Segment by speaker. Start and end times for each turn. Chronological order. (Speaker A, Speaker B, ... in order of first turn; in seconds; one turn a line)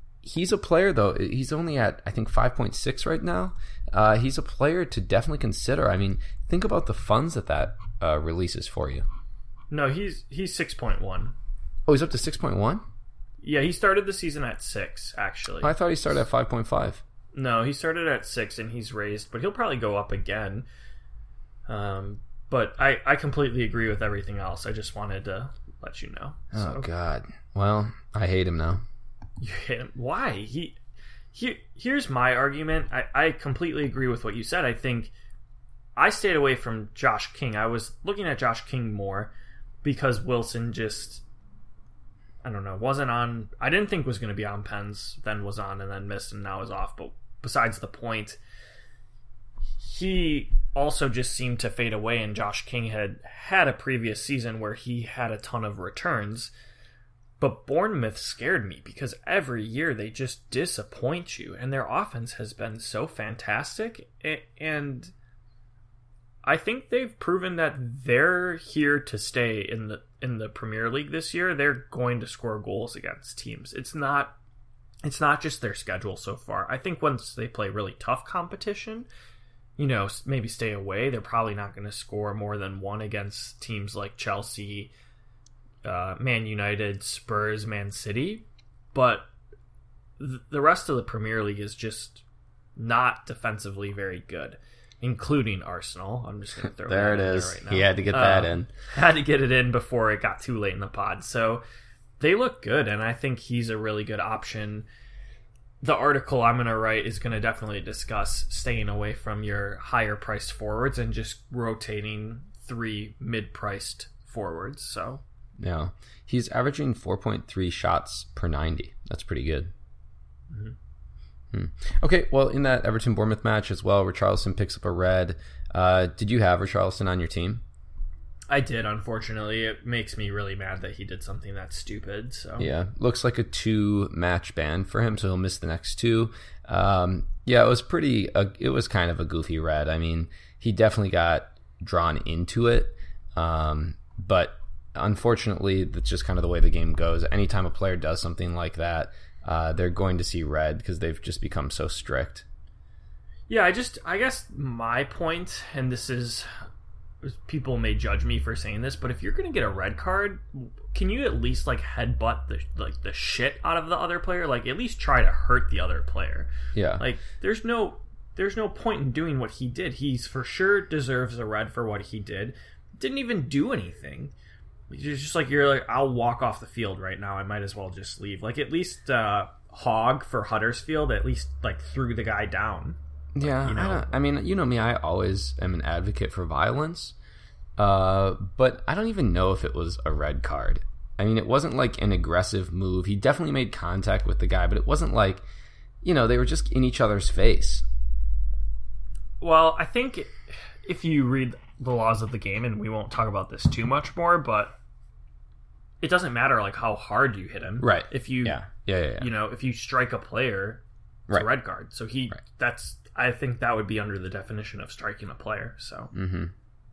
Speaker A: 0.2-9.0
Speaker B: 9.7-11.3
Speaker A: 11.9-12.8
Speaker B: 13.4-15.7
Speaker A: 15.6-17.0
Speaker B: 17.3-20.6
Speaker B: 21.7-26.9
Speaker A: 26.5-28.8
Speaker B: 29.4-30.8
Speaker B: 31.3-35.1
Speaker B: 36.0-39.3
Speaker B: 39.8-41.2
Speaker B: 42.4-48.4
Speaker B: 49.8-56.5
Speaker B: 57.4-65.1
Speaker B: 66.4-74.4
Speaker B: 75.0-79.1
Speaker B: 79.8-84.9
Speaker B: 85.8-89.3
Speaker B: 90.2-92.2
Speaker B: 92.8-101.6
Speaker A: 96.8-98.7
Speaker B: 102.2-104.9
Speaker B: 105.8-115.2
Speaker A: 115.6-119.7
Speaker B: 120.5-120.8
Speaker A: 121.5-127.6
Speaker B: 128.5-132.7
Speaker A: 132.6-152.4
Speaker B: 153.5-156.5
Speaker B: 157.2-174.3
Speaker A: 166.7-167.1
Speaker B: 174.9-184.1
Speaker A: 183.3-187.1
Speaker A: 187.8-195.4
Speaker A: 196.0-197.8
Speaker B: 199.4-204.8
Speaker B: 206.0-208.6
Speaker A: 207.8-209.3
Speaker B: 209.2-216.1
Speaker A: 216.1-216.5